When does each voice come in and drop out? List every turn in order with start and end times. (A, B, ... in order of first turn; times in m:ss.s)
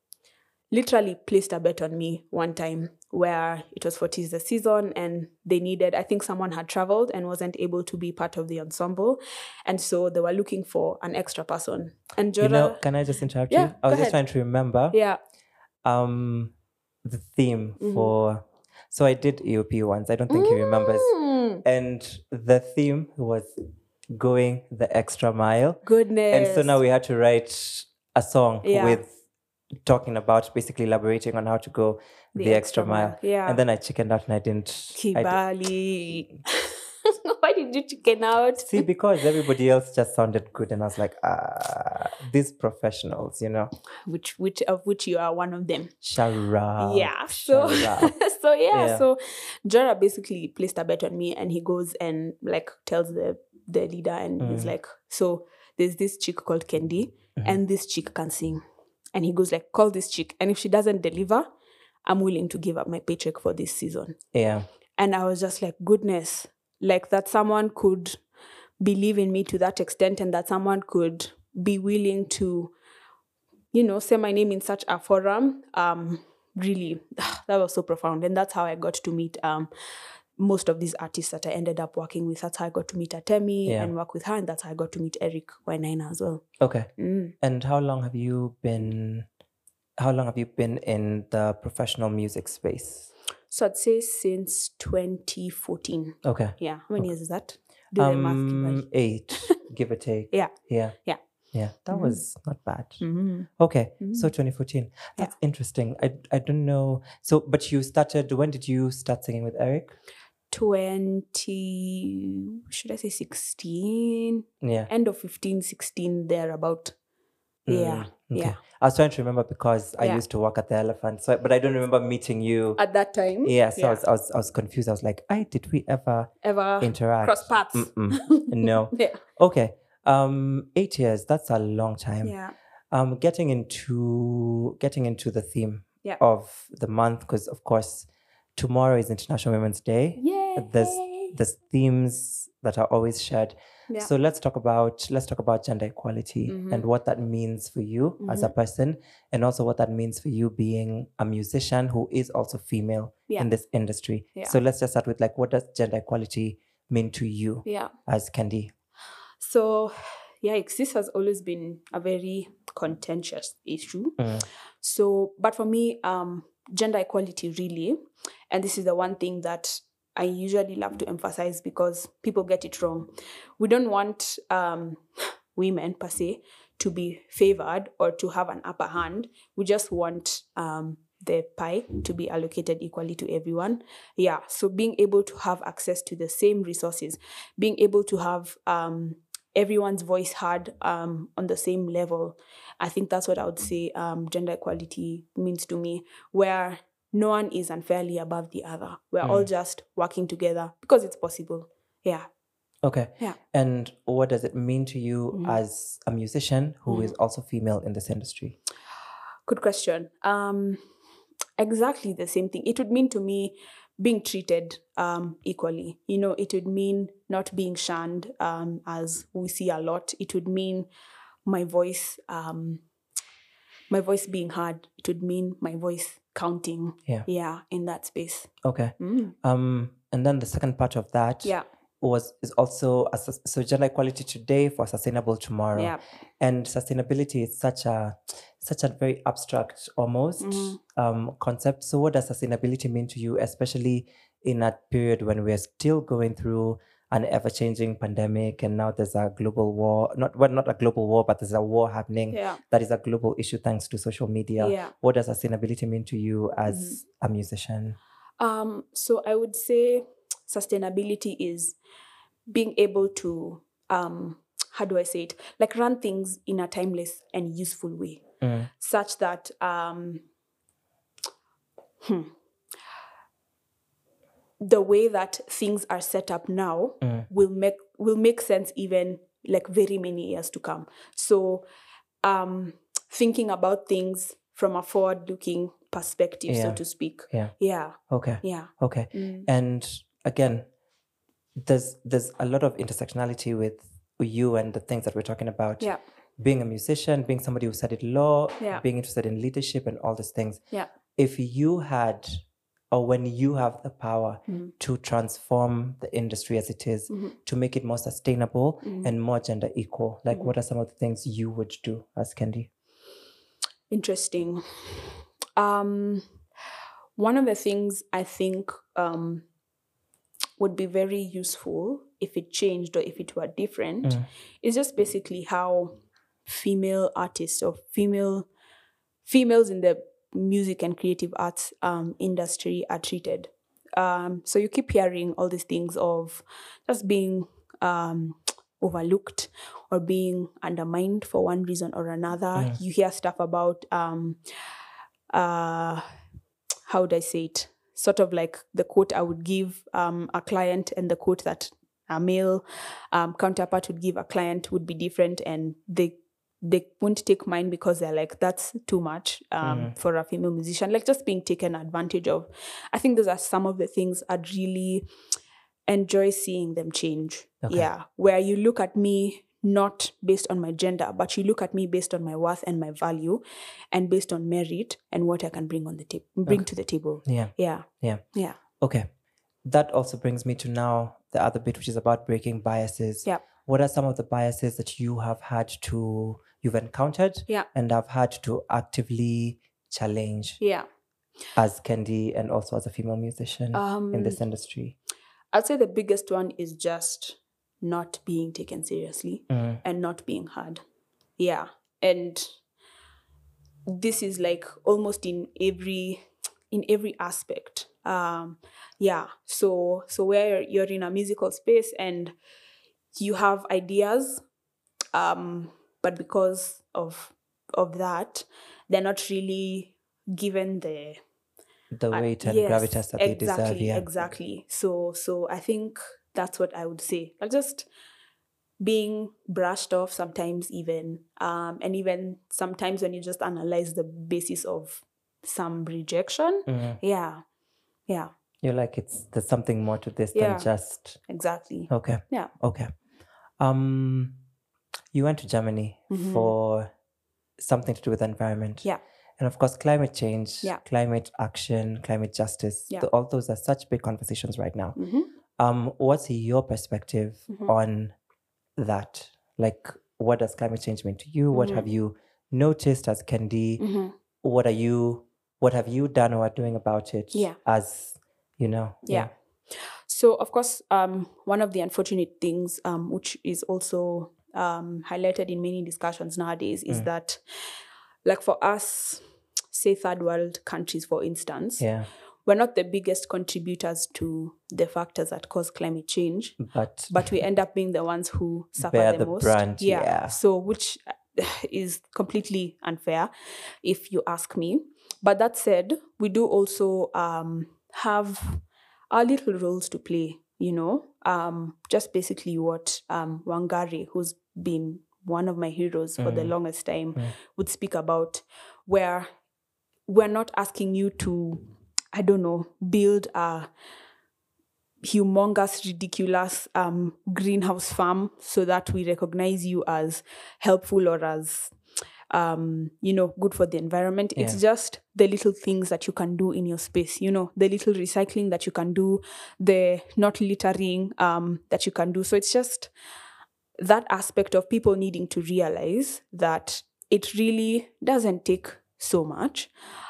0:00.7-0:12.8 A
0:12.4-0:15.0 B
0:13.5-0:14.2 A
0:14.9-0:15.2 A
0:15.8-0:16.5 B
0:17.0-0:23.5 B
0:17.8-0:18.1 A
0:20.3-0:21.6 A
0:24.1-0:29.1 B
0:25.8-0:26.8 A
0:28.6-0:29.0 A
0:29.8-0:35.4 B
0:32.3-0:33.6 A
0:34.9-0:38.9 A
0:38.6-0:43.7 B
0:44.0-0:45.9 A
0:46.0-0:48.1 B
0:46.8-0:58.6 A
0:48.7-0:49.0 B
0:54.4-0:54.7 B
0:59.1-1:01.5 A
1:02.0-1:04.2 A
1:04.3-1:04.7 B
1:05.0-1:08.2 A
1:08.8-1:12.7 A
1:13.7-1:19.7 A
1:20.4-1:26.4 A
1:23.6-1:23.9 B
1:26.6-1:29.2 B
1:27.0-1:27.3 A
1:30.0-1:33.1 B
1:33.5-1:39.5 A
1:36.2-1:37.0 B
1:38.0-1:41.0 B
1:41.5-1:43.0 B
1:41.9-1:42.2 A
1:43.0-1:43.5 A
1:43.6-1:50.0 B
1:44.0-1:44.3 A
1:50.5-1:56.9 A
1:54.6-1:54.9 B
1:57.6-2:02.8 B
1:57.7-1:58.6 A
2:02.8-2:04.0 A
2:03.4-2:12.3 B
2:06.4-2:09.2 A
2:12.2-2:12.5 A
2:12.9-2:38.7 B
2:20.2-2:21.4 A
2:26.5-2:26.9 A
2:28.2-2:28.5 A
2:37.6-2:37.9 A
2:39.4-2:48.0 A
2:44.2-2:44.4 B
2:48.5-2:55.0 A
2:55.5-3:22.3 A
3:19.2-3:19.5 B
3:22.8-3:28.6 B
3:25.3-3:25.6 A
3:26.9-3:27.1 A
3:29.5-3:30.8 A
3:31.6-3:40.9 A
3:41.4-3:42.8 A
3:43.9-3:49.3 A
3:48.6-4:18.0 B
3:55.7-3:56.0 A
4:00.4-4:00.8 A
4:12.3-4:12.6 A
4:14.6-4:14.9 A
4:16.7-4:17.0 A
4:18.4-4:21.8 A
4:22.5-4:30.2 A
4:28.4-4:28.7 B
4:32.0-4:32.3 A
4:34.6-4:41.6 A
4:37.0-4:37.3 B
4:42.2-4:49.5 A
4:46.5-4:47.5 B
4:48.1-4:50.6 B
4:51.6-5:00.6 B
5:01.1-5:02.4 B
5:02.9-5:12.7 B
5:07.1-5:07.4 A
5:08.8-5:09.1 A
5:13.9-5:16.2 A
5:17.2-5:19.4 A
5:20.6-5:25.9 A
5:26.4-5:28.5 A
5:29.2-5:44.4 A
5:45.3-5:46.0 A
5:46.9-6:05.1 A
5:59.6-5:59.9 B
6:05.9-6:18.6 A
6:07.6-6:07.9 B
6:17.2-6:18.2 B
6:18.8-6:19.1 B
6:19.6-6:30.6 B
6:30.6-6:30.8 A
6:31.6-6:35.0 B
6:33.7-6:34.4 A
6:35.5-6:40.8 A
6:39.5-6:39.8 B
6:41.4-6:42.5 A
6:43.9-6:52.3 A
6:53.1-6:54.4 A
6:55.1-7:01.2 A
7:01.9-7:04.1 B
7:02.1-7:07.9 A
7:08.8-7:17.4 A
7:16.7-7:17.0 B
7:18.6-7:21.2 B
7:20.3-7:20.7 A
7:21.3-7:22.5 A
7:21.9-7:22.9 B
7:23.6-7:24.4 B
7:25.1-7:26.9 B
7:26.1-7:26.5 A
7:27.6-7:28.8 B
7:29.4-7:35.0 B
7:35.0-7:35.3 A
7:35.6-7:38.1 B
7:38.8-7:43.8 B
7:41.5-7:41.9 A
7:43.8-7:44.1 A
7:44.4-7:49.3 B
7:49.1-7:57.4 A
7:58.2-8:01.9 A
8:01.8-8:02.1 B
8:02.4-8:13.3 A
8:06.6-8:07.3 B
8:08.8-8:10.4 B
8:13.8-8:29.3 A
8:26.2-8:26.5 B
8:30.1-8:33.7 A
8:35.0-8:41.7 A
8:42.3-8:52.9 A
8:53.8-8:59.7 A